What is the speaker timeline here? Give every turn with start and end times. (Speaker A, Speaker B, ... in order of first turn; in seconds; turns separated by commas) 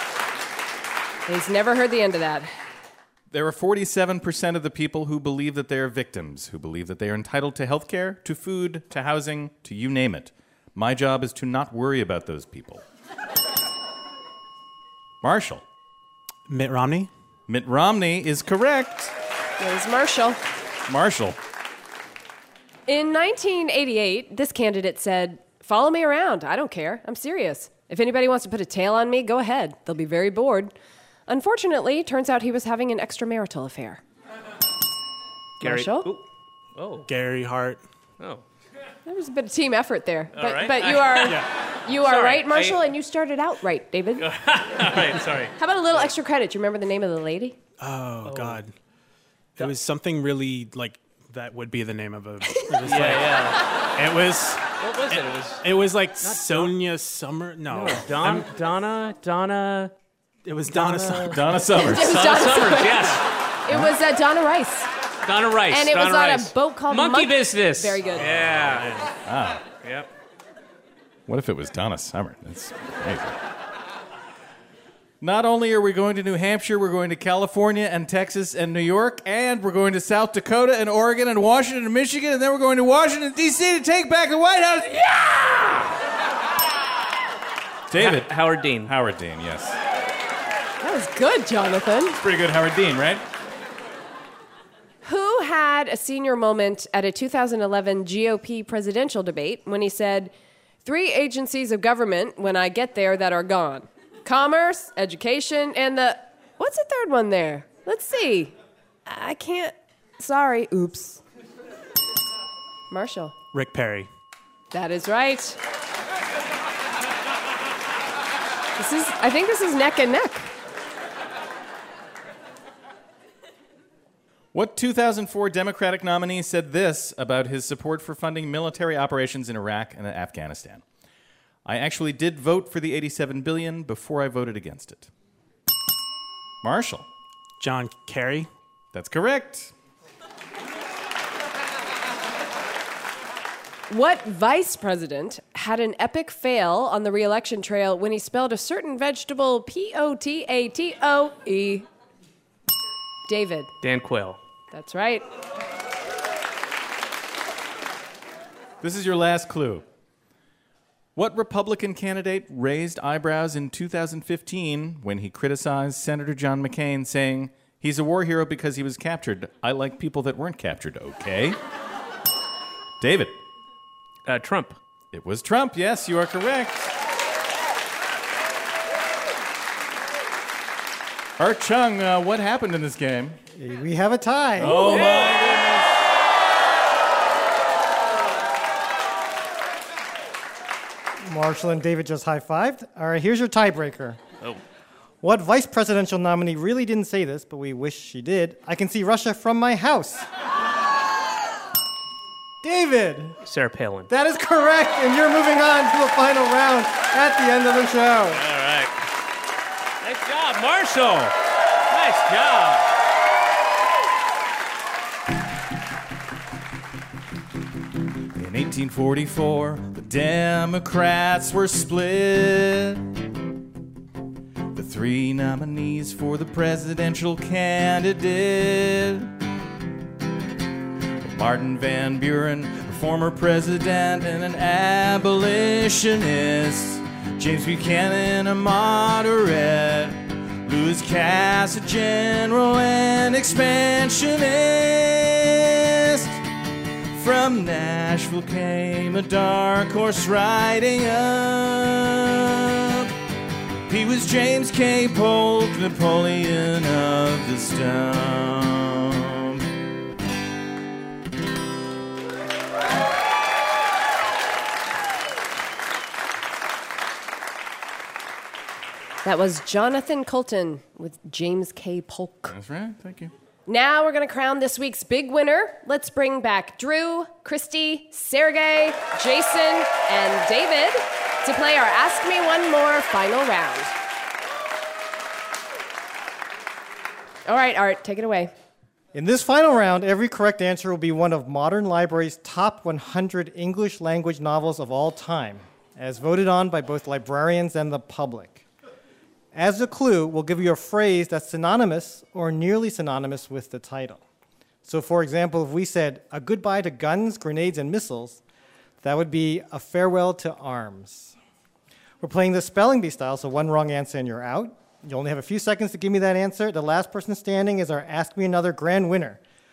Speaker A: 1.3-2.5, Speaker B: 3.3-12.8, Speaker B: 15.2-15.6, Speaker C: 16.5-17.1, Speaker B: 17.5-19.1, Speaker A: 19.6-20.4, Speaker B: 20.9-21.4, Speaker A: 22.9-30.7, Speaker A: 31.3-34.0, Speaker A: 35.6-36.1, Speaker D: 35.6-36.2, Speaker D: 36.8-37.1, Speaker C: 37.1-37.8, Speaker A: 39.0-44.2, Speaker D: 40.3-42.8, Speaker D: 44.2-46.0, Speaker A: 45.6-47.6, Speaker C: 47.8-48.7, Speaker D: 48.2-48.6, Speaker C: 49.6-58.5, Speaker D: 52.8-53.6, Speaker D: 54.8-55.6, Speaker D: 57.7-59.9, Speaker C: 60.5-61.4, Speaker B: 61.2-62.2, Speaker A: 61.7-64.9, Speaker D: 62.0-63.2, Speaker D: 65.2-69.1, Speaker A: 65.7-68.4, Speaker B: 69.2-69.6, Speaker D: 69.8-70.1, Speaker B: 71.3-73.4, Speaker B: 75.2-85.5, Speaker B: 87.9-89.8, Speaker D: 88.0-88.9, Speaker A: 90.8-92.2, Speaker B: 92.2-93.2, Speaker A: 95.0-100.3, Speaker A: 100.8-108.5, Speaker A: 109.0-111.2, Speaker A: 112.9-113.3, Speaker C: 113.5-114.1, Speaker A: 114.7-115.6, Speaker A: 118.8-120.5, Speaker B: 124.5-130.8, Speaker B: 131.7-135.1, Speaker B: 136.6-137.0, Speaker C: 137.6-138.5, Speaker B: 138.9-139.7, Speaker A: 143.9-151.8, Speaker A: 153.3-153.7, Speaker D: 153.8-154.4, Speaker A: 154.7-155.2, Speaker B: 158.8-159.8, Speaker B: 161.2-171.6, Speaker B: 173.0-173.4, Speaker D: 174.2-174.8, Speaker B: 175.1-176.9, Speaker B: 181.4-183.4, Speaker E: 183.6-185.1, Speaker B: 184.6-185.9, Speaker D: 184.6-185.3, Speaker E: 191.2-194.2, Speaker E: 195.2-200.3, Speaker E: 202.6-203.4, Speaker D: 203.4-204.1, Speaker E: 204.1-208.4, Speaker D: 208.3-208.9, Speaker D: 210.0-211.3, Speaker D: 211.9-212.8, Speaker B: 218.3-223.0, Speaker B: 224.7-229.3, Speaker B: 231.2-246.4, Speaker B: 247.1-253.1, Speaker B: 253.9-259.6, Speaker A: 269.2-272.5, Speaker B: 272.5-273.3, Speaker A: 273.7-283.9, Speaker A: 287.4-288.5, Speaker E: 289.1-298.6, Speaker E: 299.5-304.2, Speaker E: 304.8-308.4, Speaker E: 309.0-311.3, Speaker E: 312.2-319.4